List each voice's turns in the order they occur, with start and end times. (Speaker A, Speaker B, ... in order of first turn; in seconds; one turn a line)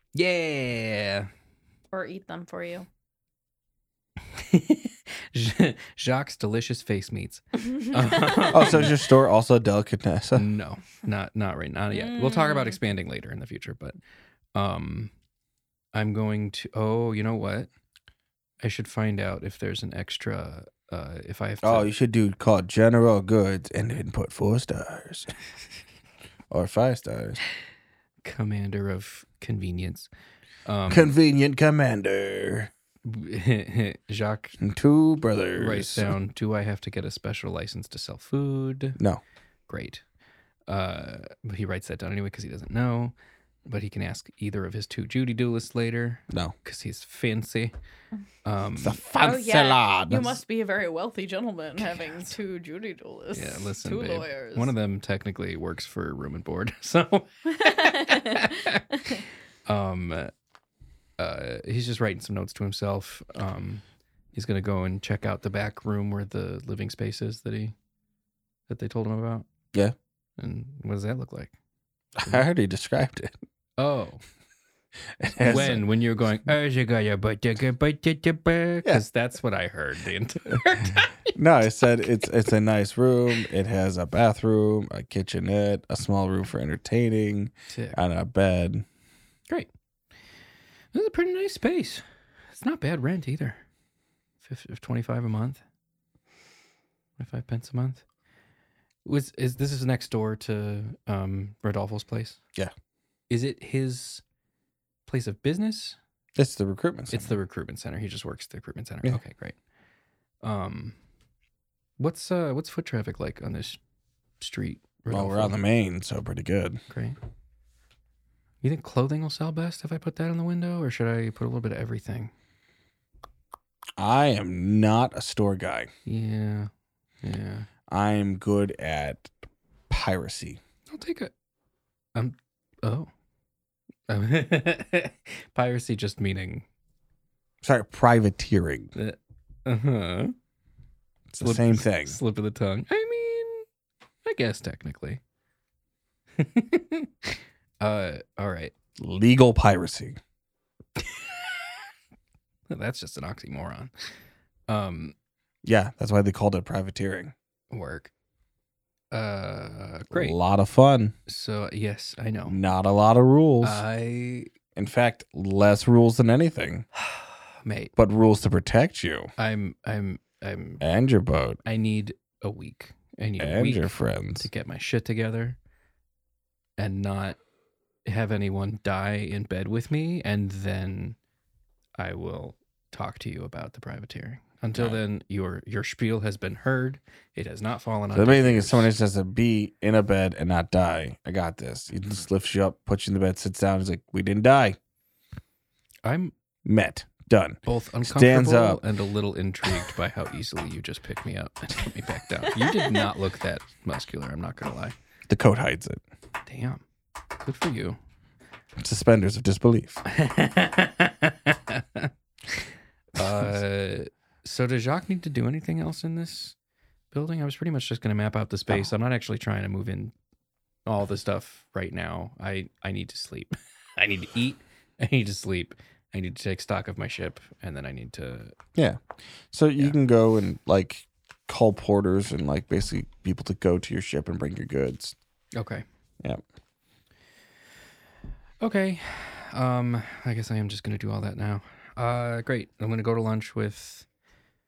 Speaker A: 0.1-1.3
Speaker B: 1.9-2.9
Speaker A: 4.3-8.9
Speaker B: 7.9-8.5
Speaker C: 8.5-10.4
Speaker A: 10.3-13.9
Speaker B: 11.9-12.8
Speaker A: 14.5-15.1
Speaker A: 15.9-17.7
Speaker A: 18.6-21.9
Speaker C: 21.6-25.3
Speaker C: 26.5-27.4
Speaker A: 28.2-30.1
Speaker A: 30.6-31.1
Speaker C: 30.9-32.7
Speaker A: 33.0-34.6
Speaker C: 34.6-36.1
Speaker A: 35.5-39.0
Speaker A: 39.7-40.0
Speaker A: 40.7-43.1
Speaker A: 43.6-47.7
Speaker A: 48.4-49.0
Speaker C: 48.8-50.4
Speaker B: 49.2-54.7
Speaker A: 53.3-60.3
Speaker B: 57.5-58.6
Speaker A: 61.2-67.7
Speaker A: 68.7-69.5
Speaker A: 70.4-71.5
Speaker C: 72.2-73.3
Speaker A: 73.8-74.2
Speaker C: 75.2-75.8
Speaker A: 75.4-81.3
Speaker C: 81.3-88.8
Speaker A: 87.7-88.0
Speaker A: 90.9-93.6
Speaker A: 94.4-95.6
Speaker A: 97.2-98.0
Speaker A: 99.0-102.4
Speaker A: 103.3-104.2
Speaker A: 105.0-106.0
Speaker C: 106.3-107.3
Speaker A: 107.1-109.6
Speaker A: 110.4-111.0
Speaker A: 112.0-113.8
Speaker A: 114.4-115.5
Speaker C: 115.1-116.8
Speaker A: 116.9-117.2
Speaker A: 118.6-122.3
Speaker C: 124.0-125.9
Speaker A: 126.0-126.7
Speaker A: 127.2-127.7
Speaker C: 127.9-129.3
Speaker C: 129.9-130.6
Speaker A: 130.9-131.3
Speaker A: 132.1-133.1
Speaker A: 134.1-136.6
Speaker C: 137.6-138.9
Speaker A: 138.9-140.3
Speaker C: 141.3-142.2
Speaker A: 141.4-143.7
Speaker A: 144.2-145.2
Speaker A: 146.4-148.7
Speaker C: 149.0-150.2
Speaker A: 152.7-153.9
Speaker A: 154.7-155.1
Speaker C: 155.6-157.3
Speaker A: 157.7-158.1
Speaker A: 159.1-160.4
Speaker C: 160.1-161.1
Speaker A: 161.3-162.6
Speaker C: 162.5-163.8
Speaker A: 163.6-164.5
Speaker C: 164.8-166.8
Speaker A: 167.0-167.9
Speaker C: 168.0-169.3
Speaker A: 169.4-170.8
Speaker C: 170.8-171.6
Speaker A: 171.6-175.6
Speaker C: 173.4-174.4
Speaker A: 176.8-177.4
Speaker A: 178.0-181.2
Speaker A: 182.0-188.9
Speaker C: 184.7-185.0
Speaker C: 188.1-194.8
Speaker A: 196.0-196.3
Speaker C: 196.6-198.8
Speaker A: 197.7-204.9
Speaker B: 202.5-203.0
Speaker C: 205.3-206.0
Speaker A: 206.4-206.8
Speaker A: 207.4-208.0
Speaker C: 208.8-210.0
Speaker A: 210.1-216.5
Speaker A: 217.1-220.1
Speaker A: 220.8-228.5
Speaker C: 228.8-235.1
Speaker A: 235.5-235.8
Speaker A: 238.6-244.1